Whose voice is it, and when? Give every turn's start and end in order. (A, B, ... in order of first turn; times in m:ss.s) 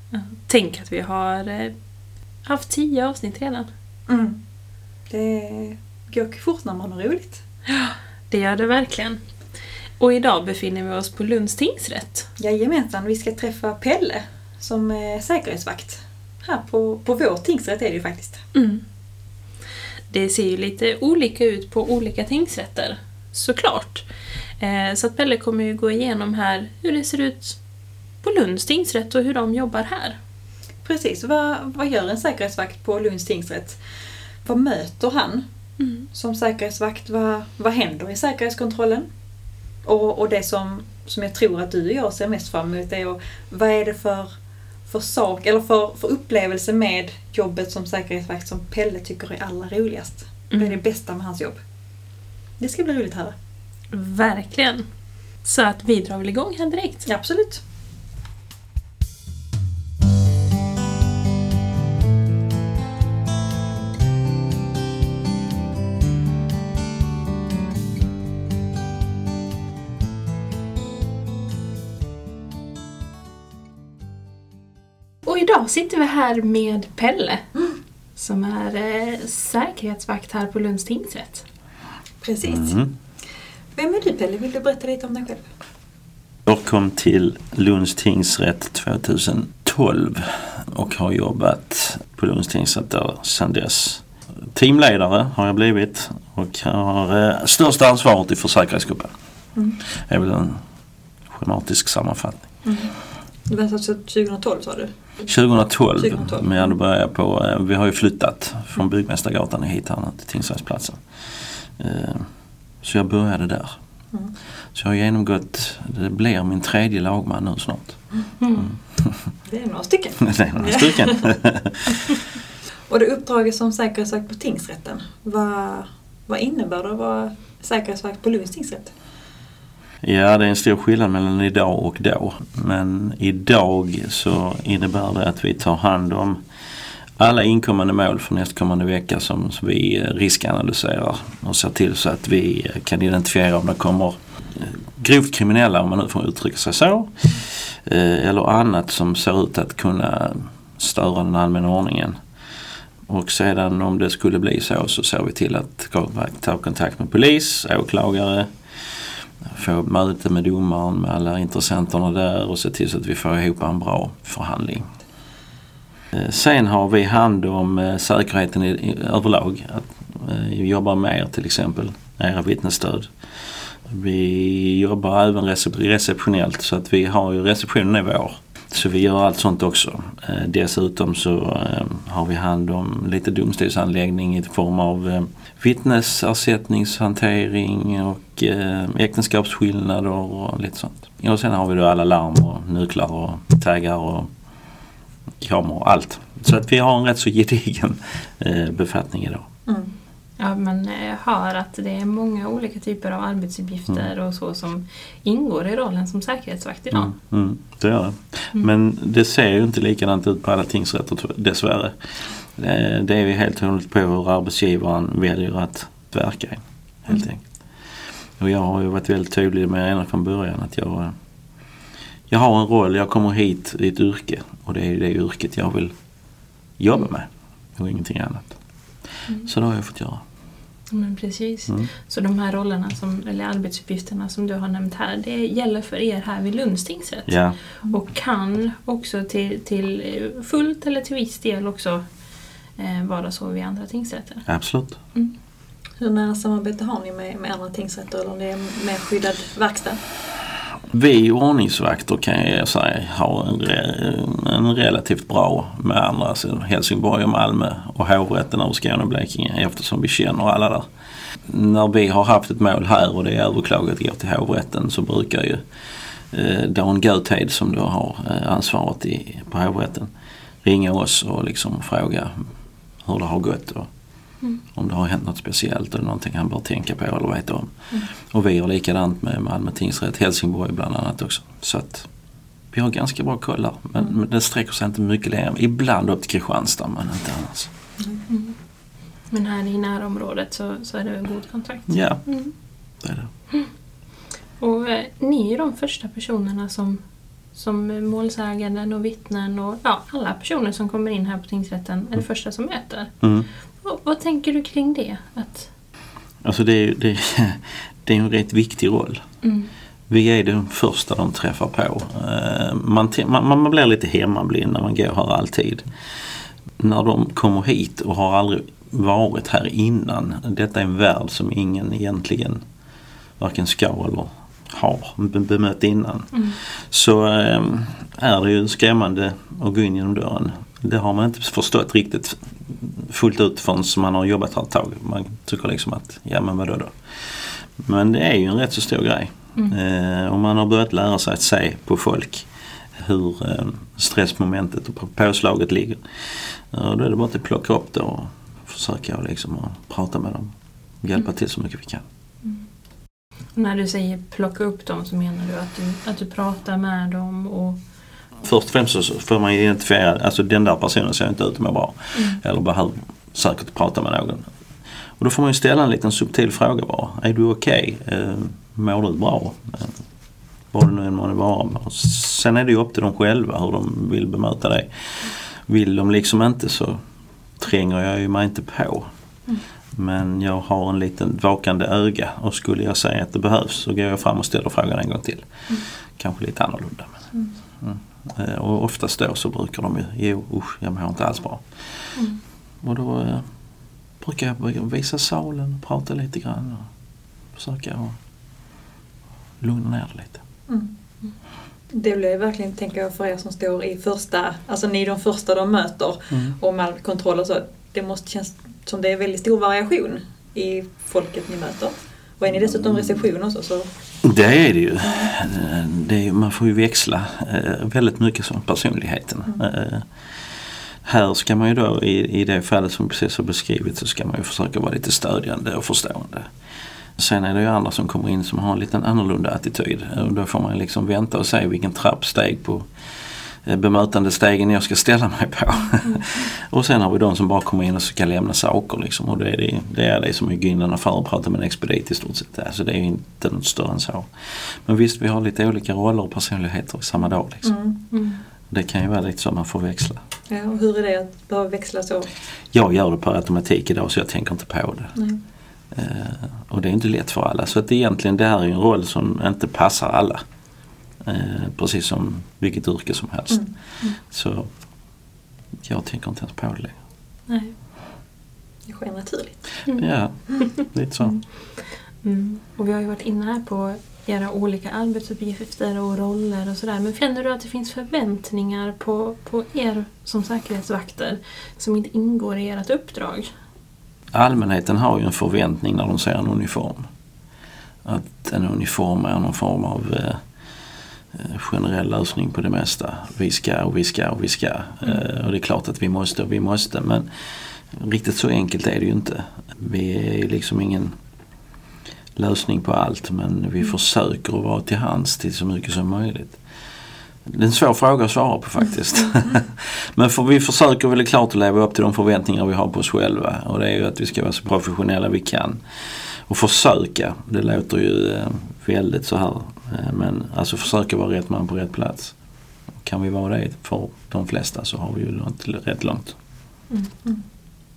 0:00.1-0:01.7 A
0:02.5-0:03.7 A
0:04.1-0:04.4 B
0:05.1-0:07.4 B
0:07.7-0:09.2 A
0:10.0-0:12.3 A
0:12.4-0:18.4 B
0:18.5-0:18.8 A
0:20.1-0:24.1 A
0:24.6-0:27.6 A
0:28.2-0:30.2 A
0:30.8-0:33.8 B
0:34.4-0:35.5 B
0:35.8-0:36.1 A
0:36.1-0:39.1 B
0:39.8-0:44.3 B
0:44.9-0:51.6 B
0:50.5-0:50.8 A
0:52.6-0:53.4 B
0:53.9-0:54.9 A
0:55.4-0:57.1 A
0:57.1-0:57.6 B
1:15.2-1:17.5 A
1:18.2-1:21.4 A
1:22.2-1:22.8 B
1:22.5-1:22.9 C
1:23.8-1:25.4 B
1:26.4-1:39.1 C
1:39.8-1:40.6 C
1:41.3-1:42.5 C
1:42.6-1:43.0 B
1:43.5-1:44.9 B
1:45.3-1:52.3 C
1:46.0-1:46.6 B
1:52.8-1:53.8 C
1:54.7-1:58.0 C
1:58.4-1:58.7 A
1:58.6-1:59.3 C
1:59.5-2:01.3 B
2:00.2-2:02.1 C
2:02.9-2:08.9 B
2:10.0-2:16.4 C
2:17.2-2:32.2 C
2:33.1-2:44.9 C
2:46.1-3:14.3 C
3:15.4-3:19.5 C
3:19.7-3:19.9 B
3:20.4-3:27.1 A
3:26.9-3:37.5 C
3:38.4-3:41.2 C
3:42.3-3:45.9 C
3:46.8-3:48.6 C
3:49.4-3:50.2 C
3:50.9-4:02.0 A
3:57.3-3:57.6 C
4:02.8-4:04.4 A
4:04.5-4:05.0 C
4:06.0-4:10.0 B
4:10.9-4:20.9 C
4:21.5-4:25.6 C
4:26.3-4:30.1 C
4:30.6-4:32.4 C
4:33.0-4:33.9 C
4:34.7-4:37.7 C
4:38.3-4:42.1 C
4:42.7-4:47.7 C
4:48.3-4:48.6 A
4:49.3-4:52.5 A
4:51.9-4:52.2 C
4:53.0-4:53.3 C
4:54.6-4:57.0 A
4:57.5-5:03.1 A
5:03.2-5:03.5 C
5:03.8-5:05.7 A
5:06.4-5:09.2 C
5:09.4-5:09.7 A
5:10.1-5:15.9 C
5:16.8-5:22.6 C
5:23.4-5:52.0 C
5:53.6-5:57.8 A
5:58.4-6:04.5 C
6:05.2-6:10.0 C
6:10.7-6:17.0 C
6:17.6-6:19.1 C
6:19.9-6:25.5 C
6:26.2-6:27.1 C
6:27.8-6:31.6 C
6:32.8-6:33.5 C
6:34.2-6:36.9 C
6:37.6-6:38.2 C
6:39.6-6:40.4 C
6:40.7-6:40.9 B
6:41.9-6:53.9 B
6:54.2-7:00.1 C
6:55.0-6:55.3 B
7:01.0-7:06.5 C
7:07.2-7:12.9 C
7:13.6-7:27.7 C
7:27.6-7:28.0 B
7:28.1-7:28.4 A
7:28.7-7:30.2 C
7:30.5-7:32.3 B
7:32.7-7:35.2 C
7:35.9-7:40.4 C
7:41.2-7:43.6 C
7:44.2-7:44.7 C
7:45.8-7:47.0 C
7:47.5-7:47.7 A
7:48.9-7:49.8 B
7:50.0-7:51.4 C
7:52.2-8:03.5 A
8:04.3-8:07.1 C
8:08.0-8:10.4 C
8:11.3-8:17.3 C
8:17.9-8:21.1 C
8:22.4-8:26.6 C
8:27.4-8:35.8 C
8:36.5-8:42.4 C
8:43.0-8:46.4 C